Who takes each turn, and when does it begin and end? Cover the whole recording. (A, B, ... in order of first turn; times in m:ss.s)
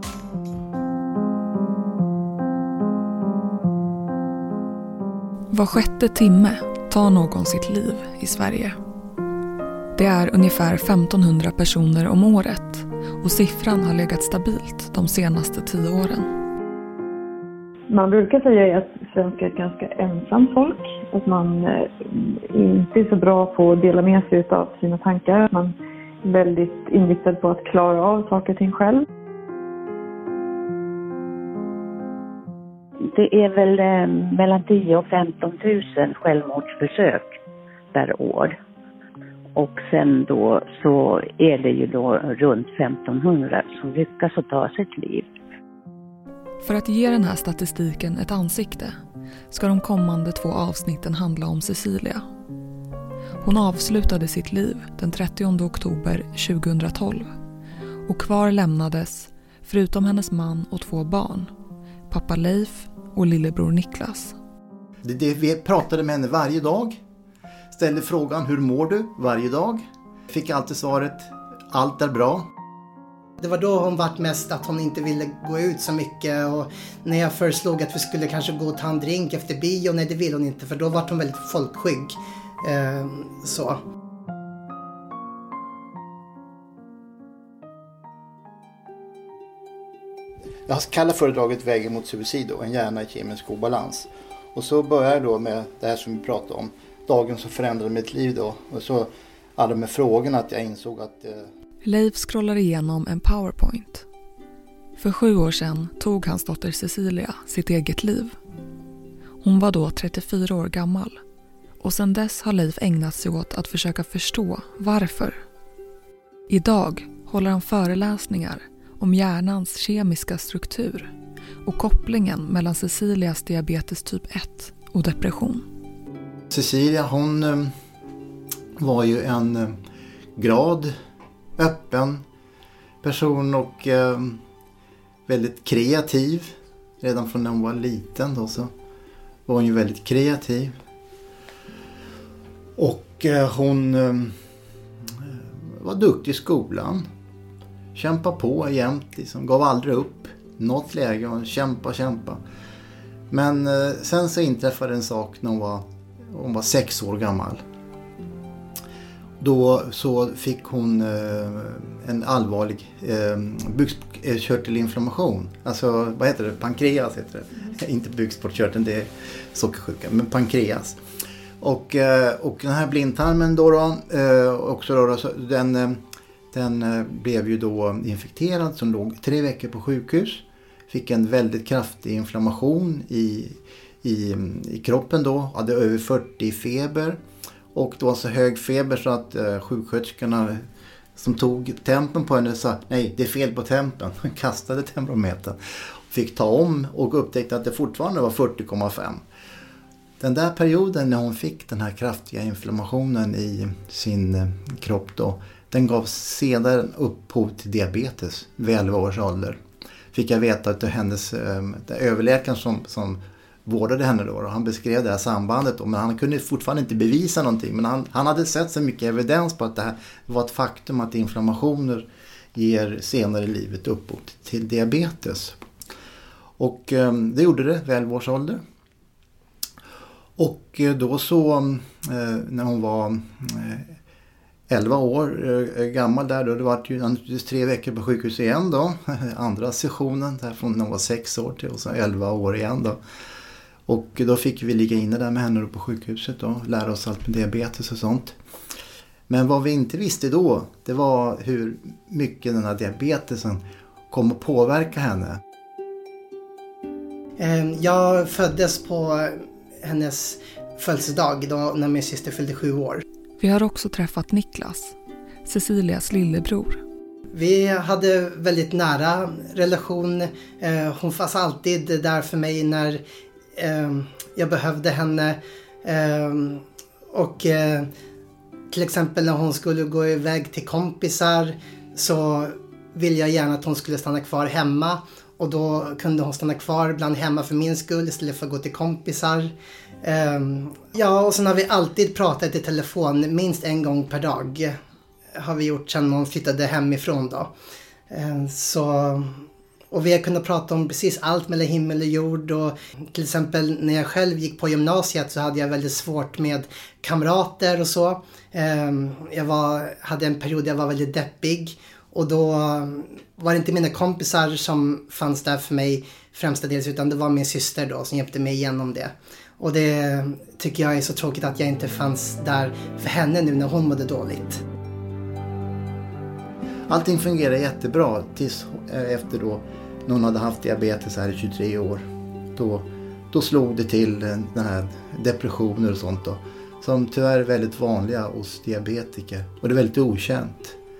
0:05.5-0:08.8 A
0:10.0-0:16.3 A
0:17.9-0:29.1 B
0:33.1-0:37.4 C
0:37.9-0:38.6 C
0:39.6-0:45.3 C
0:46.6-0:49.0 A
0:49.5-0:52.2 A
0:53.4-0:57.3 A
0:58.1-1:01.5 A
1:02.1-1:04.4 A
1:05.0-1:07.0 D
1:07.7-1:12.5 D
1:13.4-1:23.8 E
1:30.7-1:41.5 D
1:41.8-1:44.1 A
1:45.0-1:48.4 A
1:49.4-1:51.2 A
1:51.8-1:55.4 A
1:56.5-2:01.1 A
2:01.6-2:05.7 A
2:06.5-2:07.7 D
2:08.8-2:09.8 D
2:10.4-2:11.0 D
2:11.6-2:12.2 D
2:13.0-2:14.4 D
2:15.3-2:18.7 D
2:19.5-2:20.8 D
2:22.8-2:24.4 D
2:25.1-2:27.0 D
2:27.9-2:32.4 D
2:33.3-2:37.6 D
2:39.4-2:51.0 D
2:51.6-3:07.2 D
3:07.7-3:10.6 D
3:11.2-3:19.2 D
3:20.2-3:29.6 D
3:30.1-3:45.6 D
3:46.6-3:48.6 D
3:50.4-3:54.0 D
3:54.7-4:03.0 D
4:03.9-4:08.4 D
4:09.3-4:15.4 D
4:17.4-4:23.0 E
4:23.4-4:26.8 A
4:27.3-4:33.0 E
4:33.6-4:37.9 E
4:38.7-4:49.5 E
4:50.0-4:54.8 E
4:55.4-4:57.5 E
4:58.1-5:24.6 E
5:26.9-5:32.0 D
5:32.6-5:40.8 D